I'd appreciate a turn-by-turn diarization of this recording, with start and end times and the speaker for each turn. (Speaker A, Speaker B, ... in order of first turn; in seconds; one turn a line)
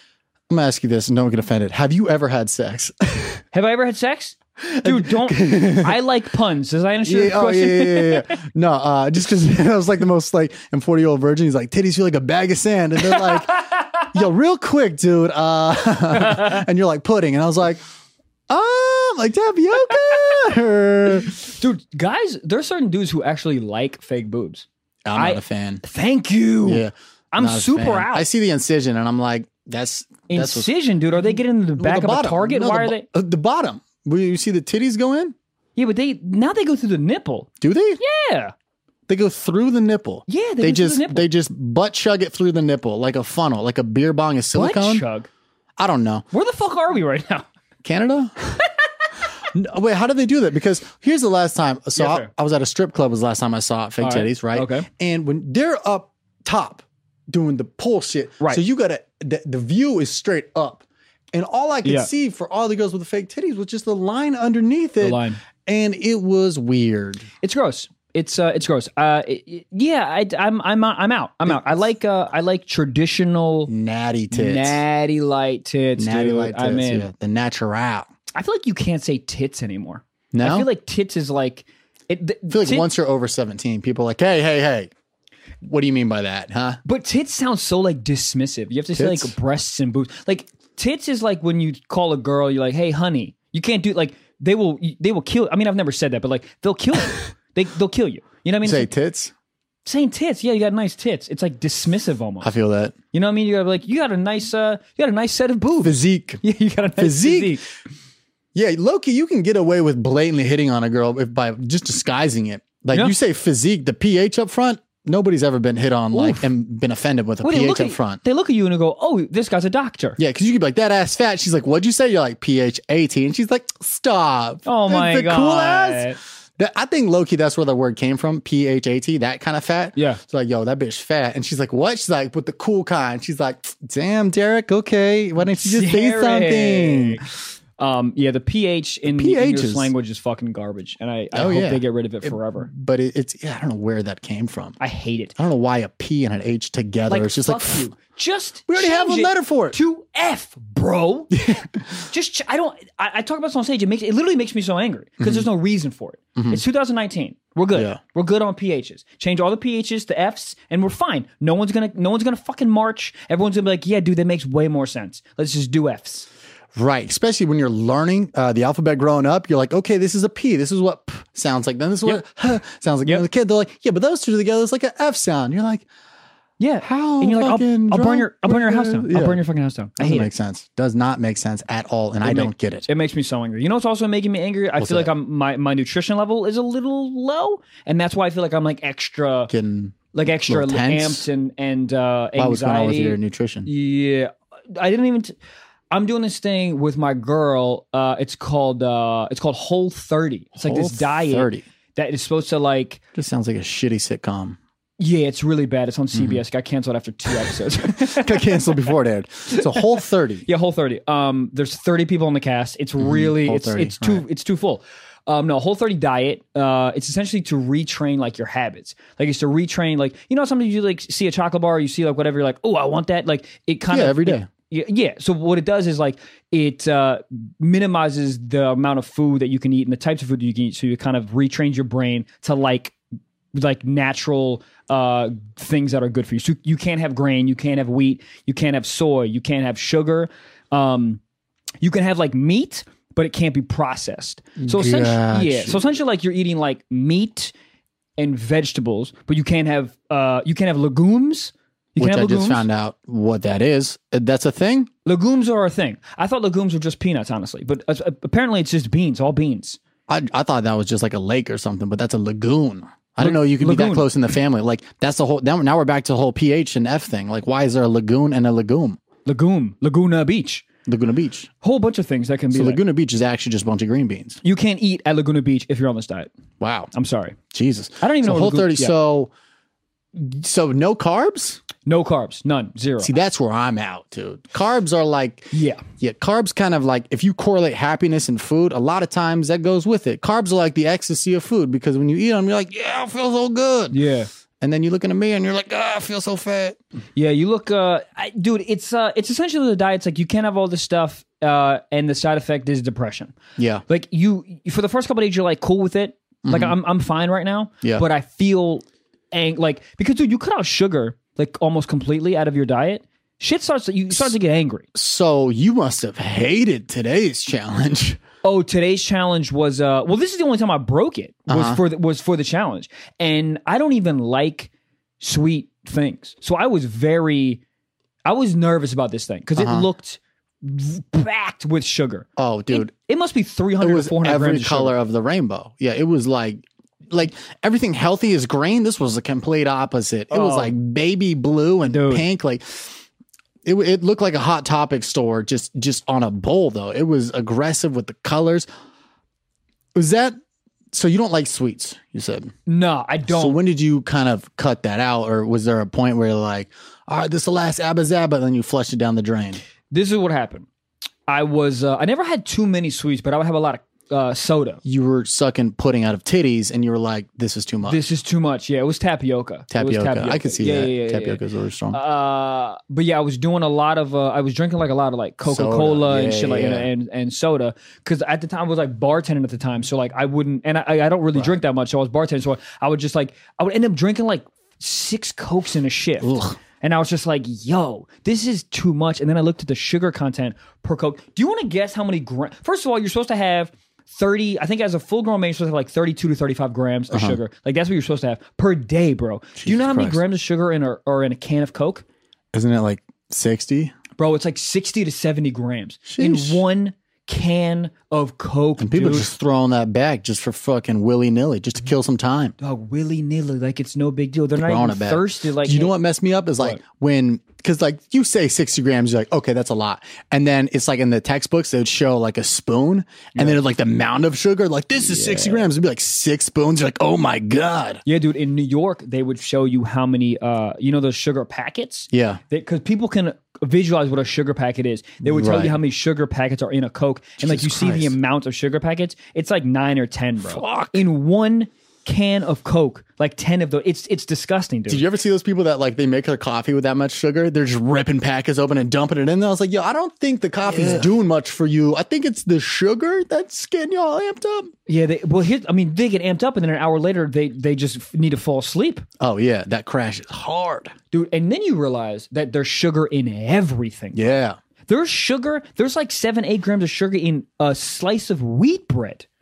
Speaker A: 0.5-3.4
Speaker B: 3.5-8.4
Speaker A: 4.6-6.0
Speaker A: 7.0-13.6
Speaker B: 13.0-14.2
Speaker A: 14.1-17.8
Speaker B: 16.1-16.6
Speaker A: 18.5-21.3
Speaker B: 21.4-28.3
Speaker A: 25.1-25.8
Speaker A: 26.6-30.7
Speaker B: 30.3-33.1
Speaker A: 31.8-35.3
Speaker B: 35.8-37.5
Speaker A: 37.6-38.0
Speaker B: 38.0-38.5
Speaker A: 39.1-45.0
Speaker B: 40.3-41.3
Speaker B: 44.5-45.3
Speaker A: 45.8-46.3
Speaker B: 46.3-47.5
Speaker A: 47.8-48.6
Speaker A: 49.5-67.2
Speaker B: 52.0-52.3
Speaker B: 54.0-54.9
Speaker B: 61.8-62.1
Speaker B: 65.0-65.4
Speaker B: 67.4-73.7
Speaker A: 71.5-71.8
Speaker A: 73.7-74.8
Speaker B: 74.3-77.1
Speaker A: 76.0-78.1
Speaker B: 78.3-82.9
Speaker A: 80.3-80.7
Speaker A: 82.5-84.9
Speaker A: 85.6-86.8
Speaker B: 86.8-98.9
Speaker A: 89.0-89.3
Speaker A: 98.6-99.3
Speaker B: 99.8-102.5
Speaker A: 102.4-103.0
Speaker B: 103.1-107.6
Speaker A: 105.8-106.4
Speaker A: 107.0-107.6
Speaker A: 108.5-118.2
Speaker B: 116.1-116.5
Speaker B: 117.4-120.2
Speaker A: 120.2-137.2
Speaker B: 124.7-126.2
Speaker B: 130.0-130.2
Speaker B: 135.4-142.7
Speaker A: 139.1-139.9
Speaker A: 141.3-144.8
Speaker B: 144.8-145.4
Speaker A: 145.4-147.9
Speaker B: 147.1-166.3
Speaker A: 148.7-149.8
Speaker A: 151.4-151.7
Speaker A: 155.2-155.5
Speaker A: 156.4-156.6
Speaker A: 157.7-158.0
Speaker A: 166.8-175.9
Speaker B: 176.6-180.3
Speaker A: 176.8-179.4
Speaker A: 180.0-182.9
Speaker B: 182.2-189.5
Speaker A: 184.8-185.1
Speaker A: 189.5-191.3
Speaker B: 190.1-195.4
Speaker A: 192.4-193.7
Speaker B: 195.9-203.0
Speaker A: 200.6-201.7
Speaker A: 203.2-204.6
Speaker B: 205.0-208.8
Speaker A: 206.1-206.4
Speaker A: 207.9-210.4
Speaker B: 209.5-209.9
Speaker B: 210.4-232.9
Speaker A: 213.0-214.2
Speaker A: 223.9-224.5
Speaker B: 233.5-241.2
Speaker B: 241.8-247.5
Speaker A: 244.6-245.8
Speaker B: 248.2-252.7
Speaker A: 252.0-254.9
Speaker B: 255.1-259.8
Speaker A: 260.1-269.0
Speaker B: 263.2-264.1
Speaker B: 269.3-270.6
Speaker A: 270.9-271.5
Speaker B: 271.6-272.8
Speaker A: 272.5-274.4
Speaker B: 274.4-276.3
Speaker A: 276.6-276.9
Speaker B: 276.9-277.4
Speaker A: 277.5-279.3
Speaker B: 278.0-278.9
Speaker A: 280.1-281.6
Speaker B: 281.8-283.1
Speaker A: 283.0-294.0
Speaker B: 285.5-285.8
Speaker B: 293.9-294.3
Speaker A: 294.6-296.8
Speaker B: 297.2-303.4
Speaker A: 303.6-303.8
Speaker B: 303.9-314.9
Speaker A: 306.4-306.8
Speaker A: 314.9-318.2
Speaker B: 318.4-327.6
Speaker A: 321.5-321.8
Speaker B: 328.2-334.9
Speaker A: 329.6-329.9
Speaker A: 332.4-332.9
Speaker A: 333.8-342.9
Speaker B: 340.3-340.7
Speaker B: 341.9-342.3
Speaker A: 343.6-348.7
Speaker A: 349.9-350.3
Speaker A: 350.9-352.5
Speaker B: 352.7-353.6
Speaker A: 353.3-359.6
Speaker B: 359.9-360.7
Speaker B: 361.3-364.8
Speaker A: 364.9-368.0
Speaker B: 367.9-371.4
Speaker A: 369.7-372.0
Speaker B: 371.9-402.1
Speaker A: 375.4-376.9
Speaker A: 386.2-386.6
Speaker A: 397.1-397.4
Speaker A: 399.6-400.2
Speaker A: 402.5-403.9
Speaker B: 404.2-409.3
Speaker A: 406.1-406.6
Speaker A: 408.8-412.5
Speaker B: 412.6-415.9
Speaker A: 414.6-428.0
Speaker B: 423.4-423.6
Speaker B: 425.0-425.7
Speaker B: 428.1-445.0
Speaker A: 432.1-432.4
Speaker A: 435.2-435.8
Speaker A: 437.4-438.1
Speaker A: 440.4-441.1
Speaker A: 444.9-454.7
Speaker B: 450.7-451.1
Speaker B: 454.9-459.1
Speaker A: 459.2-460.9
Speaker B: 461.1-464.2
Speaker A: 464.1-464.6
Speaker B: 464.9-469.3